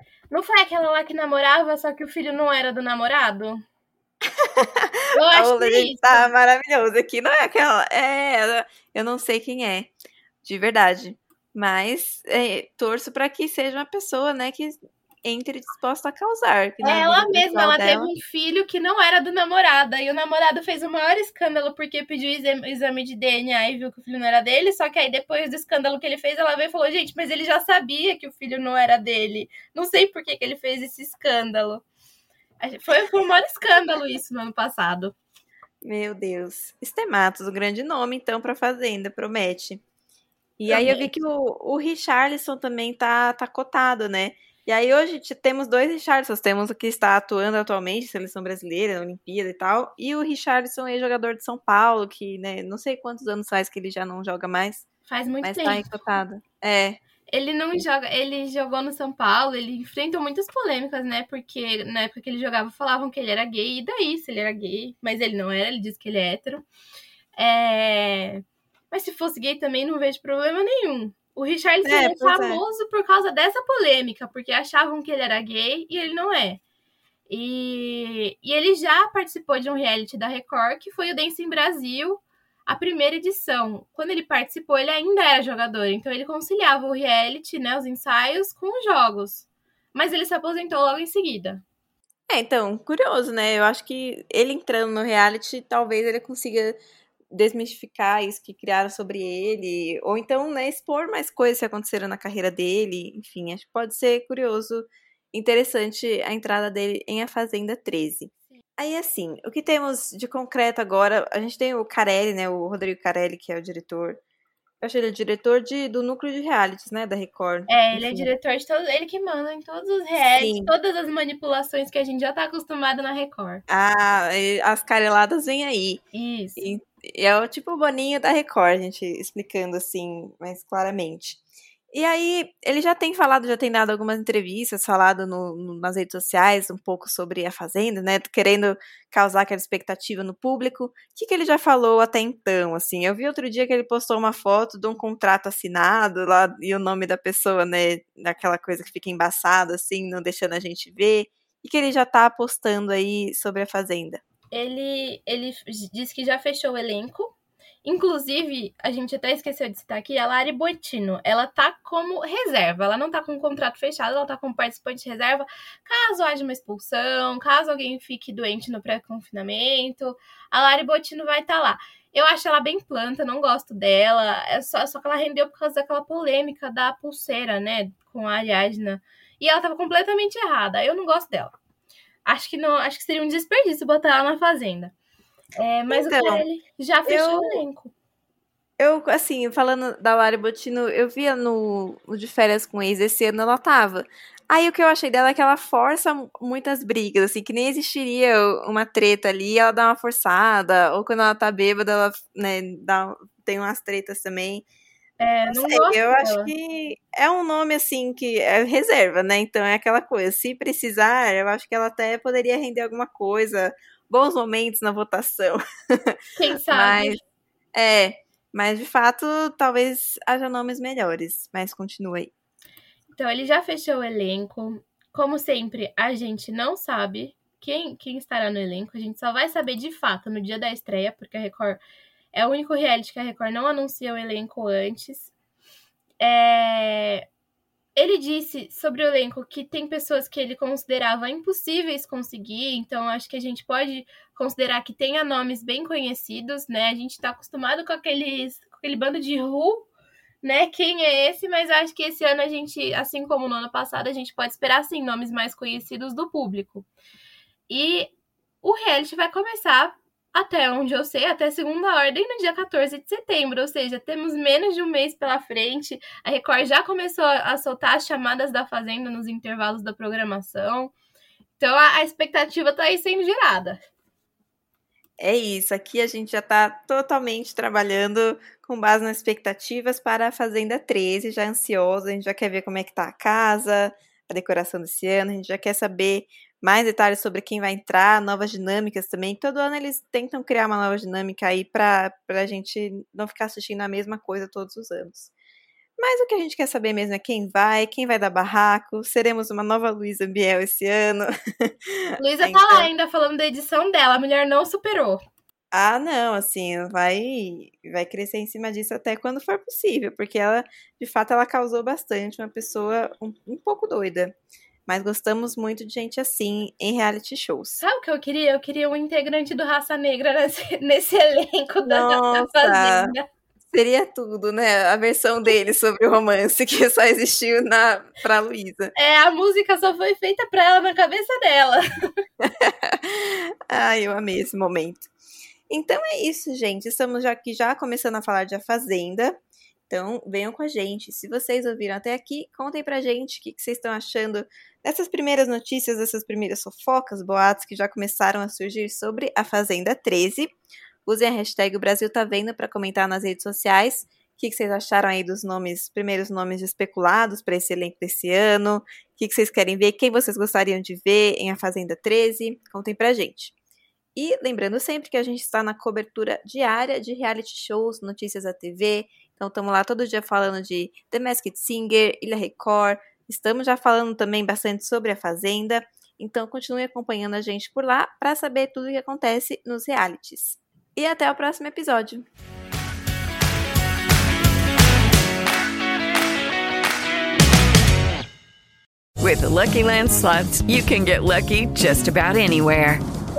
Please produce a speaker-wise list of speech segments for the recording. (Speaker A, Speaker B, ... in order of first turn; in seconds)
Speaker A: 0.3-3.6, 5.1-6.3, 16.8-31.8, 32.6-35.1, 40.7-41.1, 55.1-55.9, 57.3-66.7, 67.4-76.6, 77.3-91.6, 117.7-123.6, 126.1-126.6, 154.5-181.5, 182.2-184.9, 185.6-187.9, 205.2-206.5, 216.3-217.2, 223.1-231.8, 232.3-235.3, 236.2-237.2, 237.9-249.9, 250.4-256.9, 257.7-270.9, 271.6-273.8, 302.2-305.2, 317.8-323.2, 328.9-331.8
Speaker B: 4.4-9.9, 10.4-18.1, 35.8-39.8, 40.6-54.9, 55.4-57.0, 71.8-72.6, 92.3-96.8, 97.3-114.2, 114.8-118.3, 120.3-120.7, 123.7-126.0, 126.6-154.2, 185.9-186.4, 187.1-187.6, 188.8-204.6, 205.5-216.2, 216.7-217.2, 217.7-222.3, 275.2-295.3, 296.0-302.9, 305.7-314.3, 314.9-317.8, 321.9-323.1, 323.7-328.9, 332.4-335.1, 335.7-339.4, 339.9-350.5, 351.1-363.5, 364.1-382.2
Speaker C: 389.2-393.0